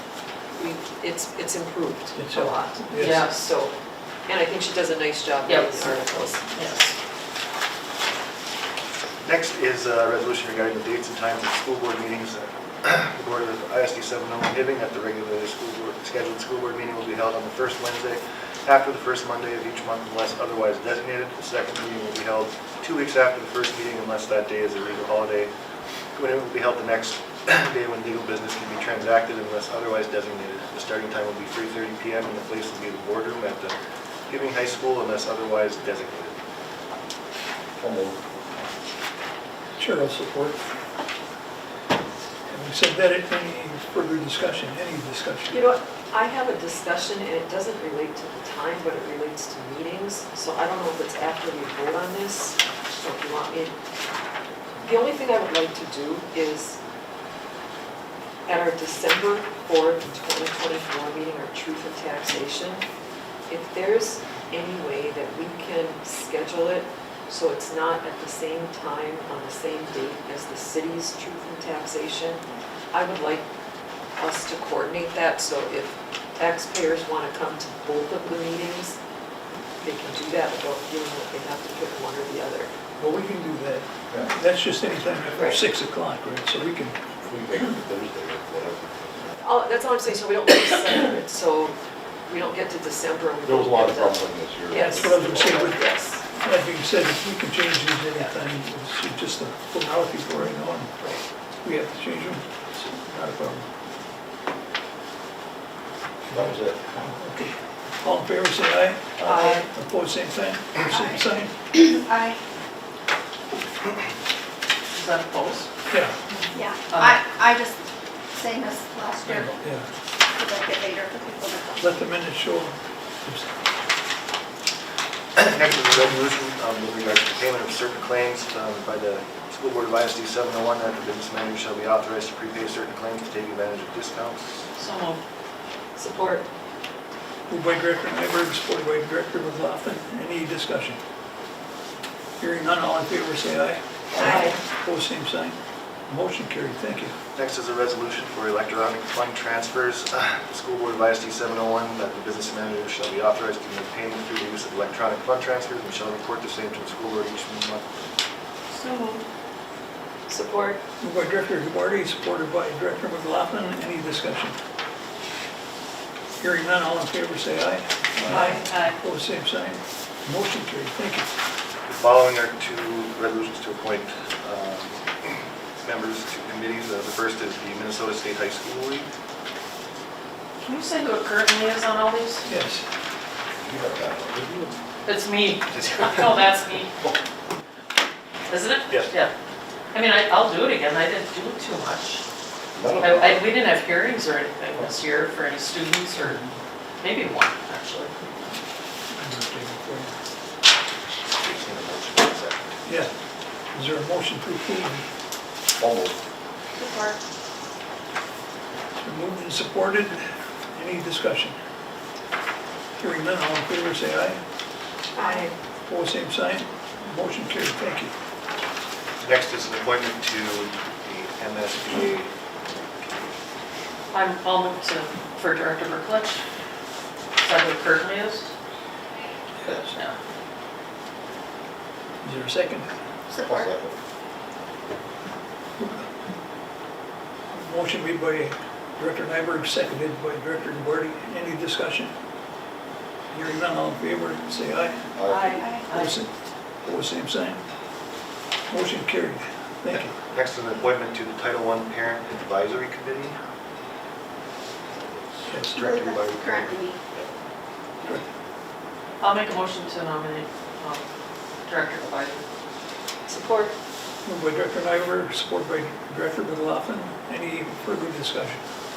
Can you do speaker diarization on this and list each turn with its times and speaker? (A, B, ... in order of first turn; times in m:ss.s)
0:00.5-0:03.7 A
0:02.2-0:03.3 B
0:02.9-0:03.3 C
0:04.3-0:06.6 A
0:05.4-0:06.9 C
0:09.2-0:25.5 D
0:26.1-0:33.7 D
0:34.3-0:36.3 D
0:37.8-0:38.2 E
0:39.8-0:40.6 B
0:42.5-0:45.6 B
0:45.5-0:53.8 A
0:54.8-0:56.8 A
0:58.5-1:02.8 A
1:03.5-1:13.5 A
1:14.2-1:19.0 A
1:19.8-1:22.7 A
1:23.0-1:27.0 B
1:25.3-1:25.6 A
1:27.2-1:29.4 E
1:29.4-1:36.2 A
1:33.4-1:35.6 E
1:34.7-1:35.8 B
1:36.4-1:40.9 B
1:41.6-1:43.6 B
1:46.3-1:49.1 B
1:46.3-1:46.8 E
1:49.2-1:49.5 E
1:49.3-1:49.6 A
1:49.3-1:49.6 C
1:49.7-1:51.5 B
1:50.8-1:52.4 F
1:54.9-1:55.7 C
1:55.9-1:56.1 B
1:56.3-1:57.2 C
1:56.5-1:59.6 F
1:59.3-1:59.8 B
2:00.3-2:02.0 F
2:01.8-2:03.5 B
2:05.4-2:14.6 D
2:14.8-2:15.2 C
2:16.0-2:16.5 A
2:17.5-2:21.0 B
2:22.4-2:25.6 B
2:24.2-2:24.6 A
2:26.1-2:27.1 B
2:27.3-2:38.0 D
2:38.7-2:39.2 C
2:40.3-2:40.8 A
2:41.0-2:44.5 B
2:46.4-2:51.3 B
2:48.3-2:49.0 C
2:51.8-2:59.1 D
3:00.6-3:02.4 C
3:02.5-3:02.8 B
3:03.6-3:04.7 E
3:05.0-3:06.9 C
3:05.7-3:06.2 D
3:08.5-3:09.3 C
3:09.9-3:12.2 C
3:12.7-3:13.6 E
3:13.0-3:16.4 C
3:17.0-3:18.1 C
3:19.1-3:20.1 B
3:21.4-3:22.7 D
3:22.8-3:23.1 B
3:23.7-3:25.0 B
3:25.8-3:26.2 E
3:26.8-3:27.2 C
3:29.0-3:30.2 B
3:30.7-3:31.5 B
3:33.0-3:34.4 B
3:35.1-3:35.5 F
3:35.2-3:35.5 A
3:35.8-3:38.1 B
3:39.2-3:42.3 D
3:44.1-3:46.4 C
3:47.4-3:48.5 C
3:49.6-3:49.9 B
3:49.8-3:50.2 C
3:52.2-3:52.9 B
3:53.3-3:53.7 F
3:53.4-3:54.0 E
3:57.5-4:02.1 B
4:03.3-4:06.3 B
4:05.2-4:05.6 E
4:05.2-4:06.2 C
4:05.4-4:05.9 F
4:06.8-4:07.6 B
4:08.7-4:10.1 B
4:10.3-4:13.4 D
4:15.5-4:15.9 B
4:15.7-4:17.0 F
4:15.7-4:17.2 D
4:19.2-4:21.0 C
4:21.6-4:22.4 C
4:23.3-4:23.7 A
4:24.2-4:28.6 B